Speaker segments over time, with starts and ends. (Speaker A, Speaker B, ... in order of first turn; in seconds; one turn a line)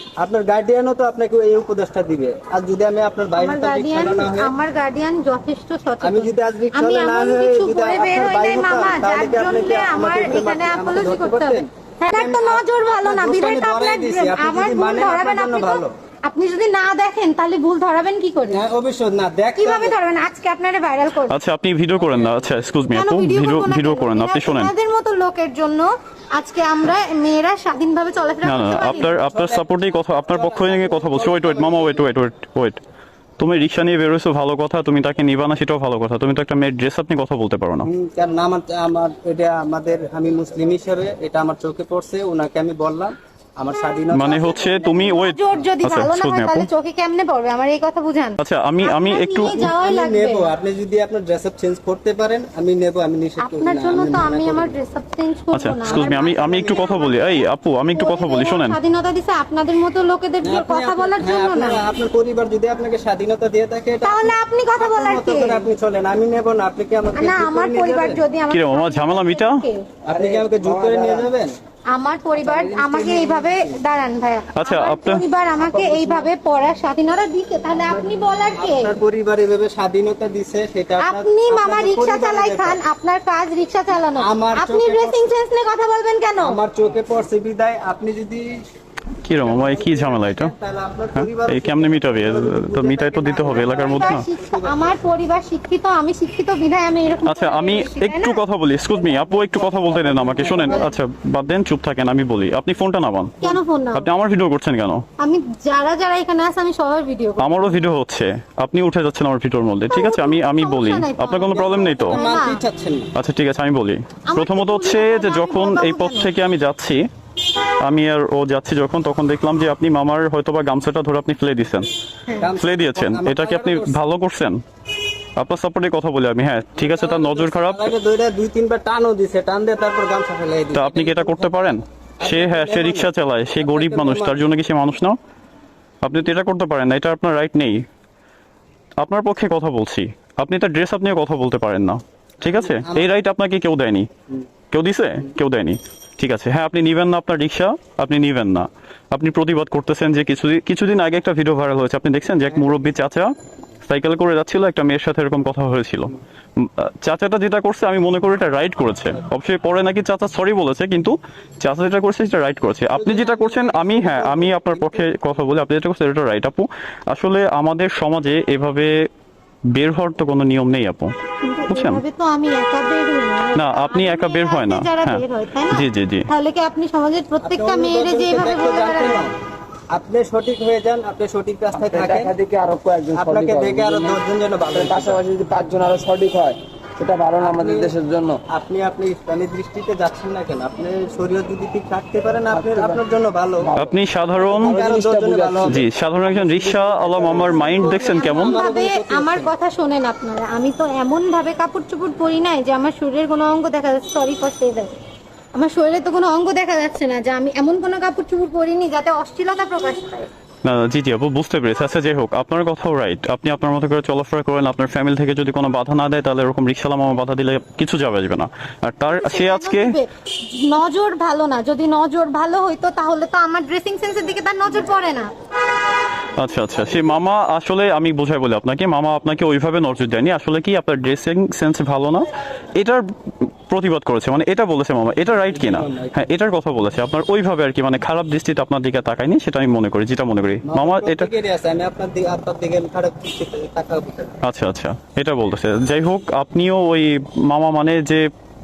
Speaker A: 0.2-4.5
Speaker B: 3.4-18.6
Speaker A: 6.0-15.9
Speaker A: 18.5-20.0
Speaker B: 19.6-21.4
Speaker C: 21.3-24.7
Speaker B: 22.9-29.2
Speaker C: 28.4-32.8
Speaker A: 29.0-32.1
Speaker C: 33.4-37.9
Speaker A: 37.8-44.6
Speaker C: 44.1-46.7
Speaker B: 44.4-50.5
Speaker C: 48.4-49.7
Speaker A: 49.5-54.8
Speaker B: 53.4-61.8
Speaker C: 55.5-58.8
Speaker A: 55.9-56.7
Speaker A: 60.4-68.2
Speaker B: 64.0-65.7
Speaker B: 67.2-69.9
Speaker C: 68.5-69.6
Speaker A: 70.1-71.5
Speaker D: 70.1-71.3
Speaker B: 71.9-78.9
Speaker A: 72.4-73.8
Speaker C: 74.5-75.2
Speaker A: 75.6-76.3
Speaker A: 78.6-82.8
Speaker B: 81.0-86.6
Speaker A: 84.2-85.3
Speaker A: 86.4-88.6
Speaker C: 89.2-90.5
Speaker A: 89.4-95.0
Speaker C: 91.2-94.2
Speaker B: 93.4-98.4
Speaker C: 97.3-105.0
Speaker A: 99.8-100.9
Speaker B: 100.5-100.9
Speaker B: 103.4-104.1
Speaker B: 105.2-107.7
Speaker C: 107.4-112.2
Speaker B: 109.9-112.6
Speaker A: 111.5-113.1
Speaker C: 113.2-117.0
Speaker B: 114.3-116.3
Speaker C: 117.8-121.9
Speaker A: 122.4-124.0
Speaker C: 122.6-124.6
Speaker C: 125.4-127.9
Speaker A: 126.8-133.1
Speaker C: 130.7-135.2
Speaker A: 133.6-134.4
Speaker C: 136.0-137.8
Speaker C: 139.0-144.1
Speaker A: 142.4-143.1
Speaker C: 144.7-153.3
Speaker C: 153.9-169.1
Speaker A: 162.9-165.1
Speaker C: 169.7-171.1
Speaker B: 171.4-179.3
Speaker C: 171.7-172.0
Speaker C: 173.6-176.3
Speaker A: 177.4-179.3
Speaker A: 179.9-182.4
Speaker D: 181.8-184.2
Speaker A: 183.1-185.2
Speaker D: 184.7-188.4
Speaker A: 187.4-188.0
Speaker A: 188.5-193.7
Speaker D: 192.5-193.0
Speaker D: 193.6-197.9
Speaker C: 193.8-194.8
Speaker A: 194.6-195.8
Speaker C: 195.7-198.6
Speaker A: 197.4-199.5
Speaker B: 197.9-204.9
Speaker B: 205.5-210.3
Speaker C: 210.6-220.0
Speaker B: 219.1-225.3
Speaker C: 226.4-241.3
Speaker A: 235.5-236.2
Speaker A: 240.7-244.4
Speaker C: 244.4-248.3